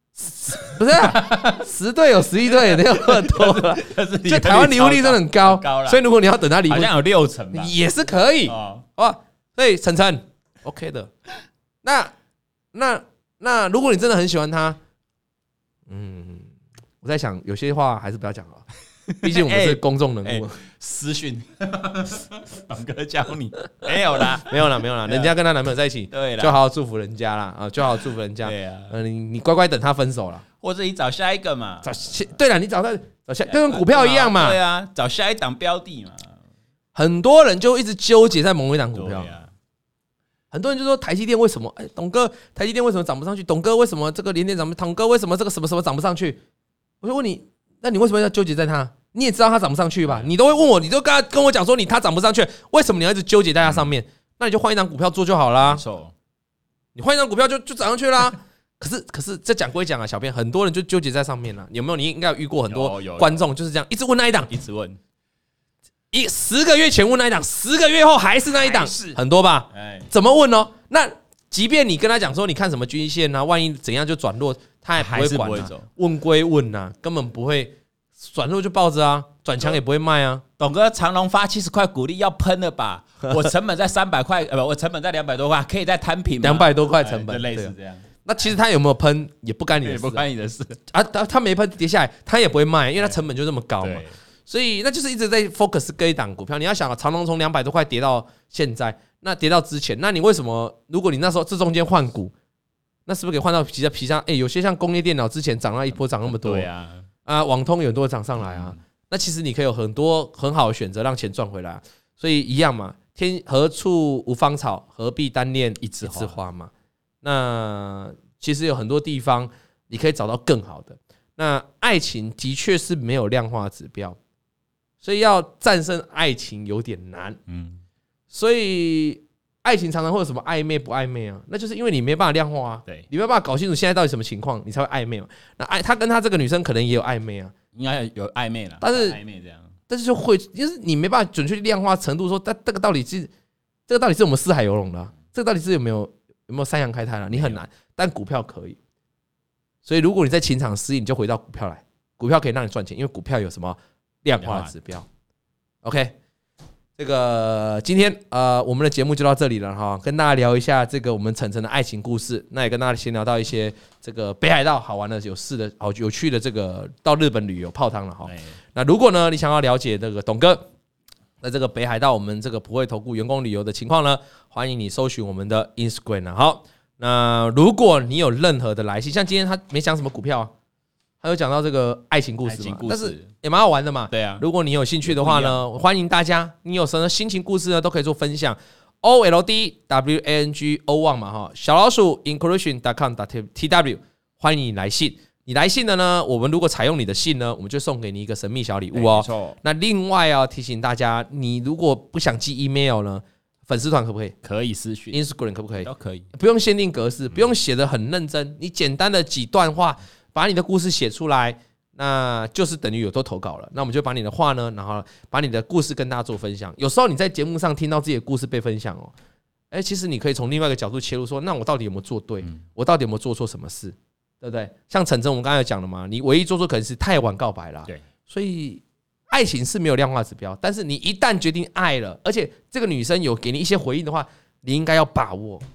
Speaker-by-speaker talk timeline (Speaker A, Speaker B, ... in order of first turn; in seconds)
Speaker A: 0.2-6.9, 7.5-11.1, 11.8-12.1, 12.7-14.8, 15.9-16.5, 17.0-18.6, 19.2-20.6, 24.4-30.4, 31.8-34.6, 36.9-39.3, 40.5-46.4, 47.0-55.8, 56.9-64.5, 66.1-80.4, 86.4-87.7, 88.2-90.2, 90.9-102.3, 103.1-106.7, 107.2-116.7, 117.2-124.2, 125.0-127.4, 128.3-137.5, 138.8-139.2, 139.9-143.3, 143.9-148.8, 149.8-155.1, 155.8-156.1, 157.0-170.6, 171.4-180.5, 181.2-204.3, 205.1-219.1, 219.7-235.6
Speaker B: 0.8-1.6, 2.5-6.0, 6.6-7.7, 8.4-8.8, 19.1-25.3, 26.1-26.6, 28.4-28.9, 30.6-31.9, 33.5-36.4, 38.9-39.5, 50.0-50.3, 53.6-53.9, 55.6-56.1, 62.7-63.5, 64.5-65.0, 68.5-69.2, 69.7-70.1, 75.0-75.8, 80.6-88.1, 89.8-90.8, 93.8-94.2, 106.0-107.0, 108.4-108.8, 115.8-116.4, 127.5-127.8, 137.7-139.7, 147.3-147.6, 154.4-154.7, 168.2-168.5, 182.4-183.3, 184.1-184.4, 185.0-185.6, 198.9-199.6, 204.4-205.2, 205.8-206.3